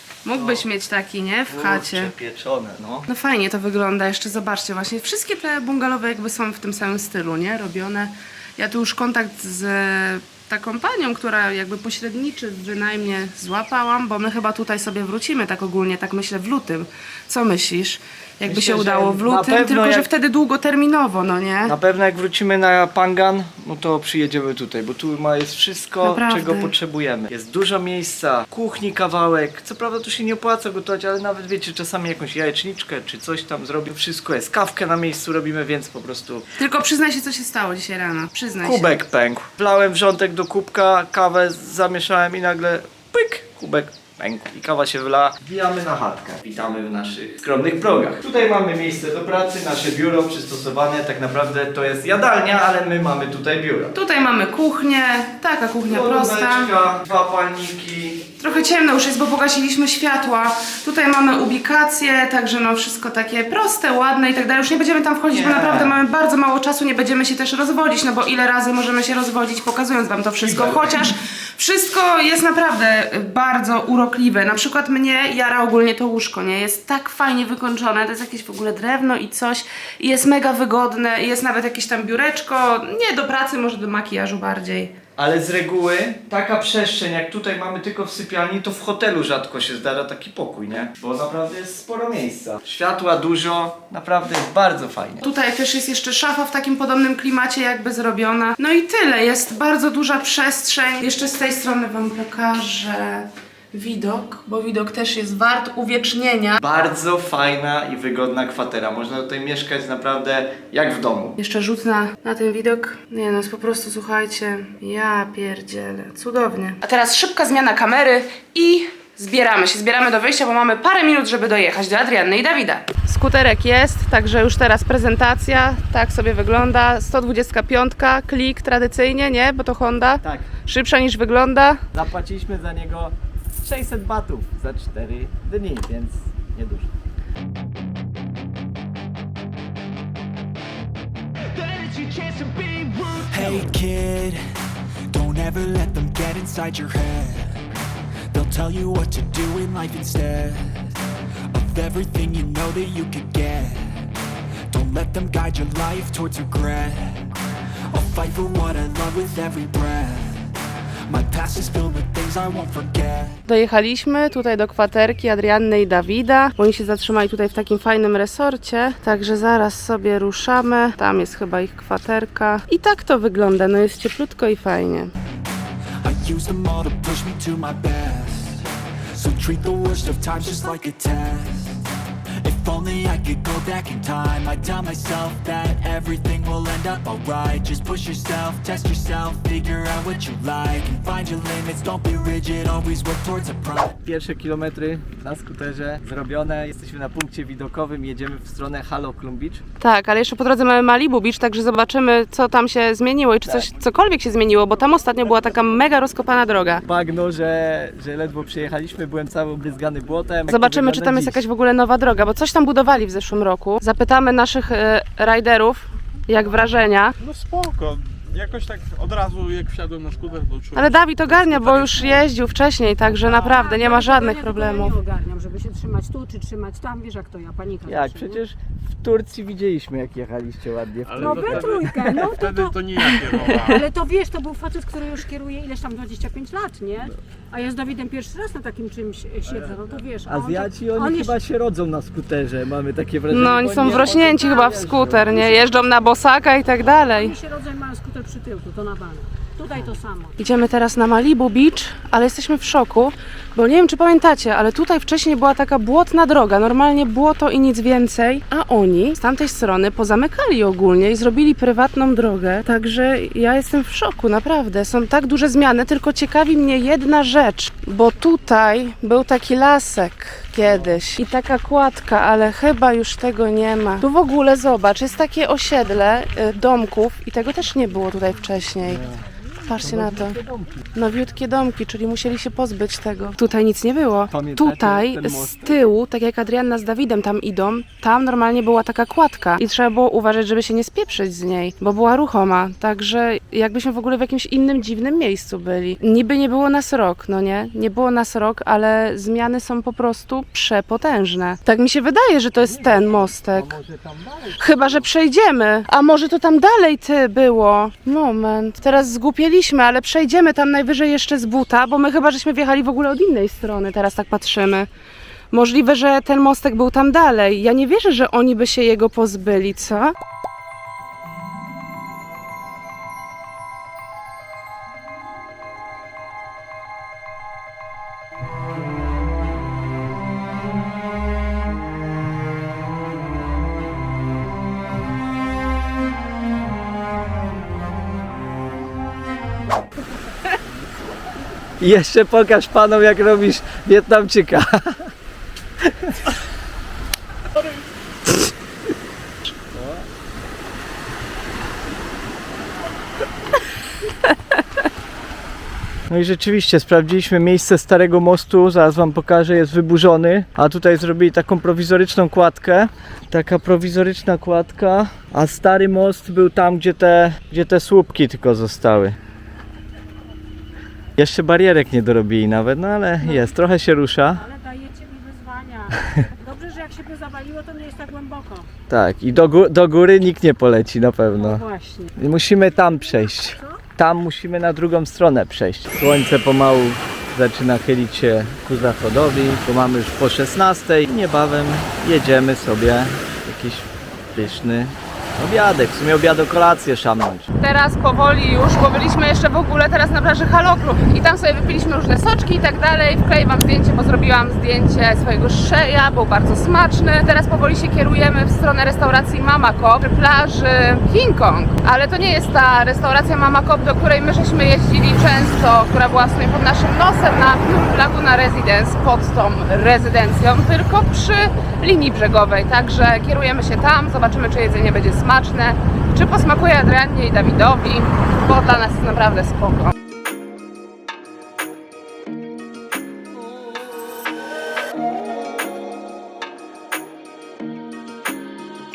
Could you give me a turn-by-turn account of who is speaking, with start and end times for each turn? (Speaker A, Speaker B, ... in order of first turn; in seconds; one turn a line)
Speaker A: 0.2-2.1
Speaker B: 0.3-0.7
Speaker B: 1.5-3.1
Speaker A: 3.1-21.7
Speaker B: 18.4-20.1
Speaker B: 21.7-36.5
Speaker A: 26.0-26.7
Speaker A: 36.6-38.9
Speaker B: 38.6-54.0
Speaker A: 53.9-56.7
Speaker B: 55.9-58.3
Speaker A: 58.4-85.0
Speaker B: 65.3-66.0
Speaker B: 70.4-71.1
Speaker B: 85.2-95.2
Speaker A: 95.2-106.6
Speaker B: 106.6-111.4
Speaker A: 111.4-131.8
Speaker B: 130.2-130.5
Speaker B: 131.9-136.9
Speaker C: 141.6-144.4
Speaker C: 145.1-147.6
Speaker C: 148.3-150.9
Speaker C: 151.5-154.0
Speaker C: 154.7-157.4
Speaker C: 157.9-160.5
Speaker C: 161.1-163.4
Speaker A: 163.5-175.1
Speaker C: 176.0-181.8
Speaker C: 182.4-194.0
Speaker B: 194.0-199.6
Speaker A: 199.8-206.8
Speaker B: 203.4-203.7
Speaker B: 206.9-211.4
Speaker A: 210.5-217.1
Speaker D: 217.2-222.3
Speaker A: 220.8-224.9
Speaker E: 223.2-228.4
Speaker B: 227.9-232.3
Speaker D: 231.0-233.8
Speaker E: 231.2-241.3
Speaker B: 240.3-245.8
Speaker A: 243.3-247.3
Speaker E: 247.1-250.3
Speaker A: 250.4-279.0
Speaker B: 278.8-279.2
Speaker A: 279.6-280.4
Speaker B: 279.8-280.6
Speaker A: 280.9-303.7
Speaker B: 284.3-285.8
Speaker B: 302.6-305.1
Speaker A: 304.6-314.9
Speaker A: 315.5-320.1
Speaker B: 341.8-345.1
Speaker B: 345.8-346.2
Speaker B: 349.7-350.1
Speaker B: 356.1-369.2
Speaker B: 371.2-374.4
Speaker E: 373.2-373.5
Speaker E: 374.4-378.7
Speaker B: 378.9-381.6
Speaker E: 381.4-382.1
Speaker B: 382.2-397.5
Speaker E: 383.6-383.8
Speaker A: 397.5-429.9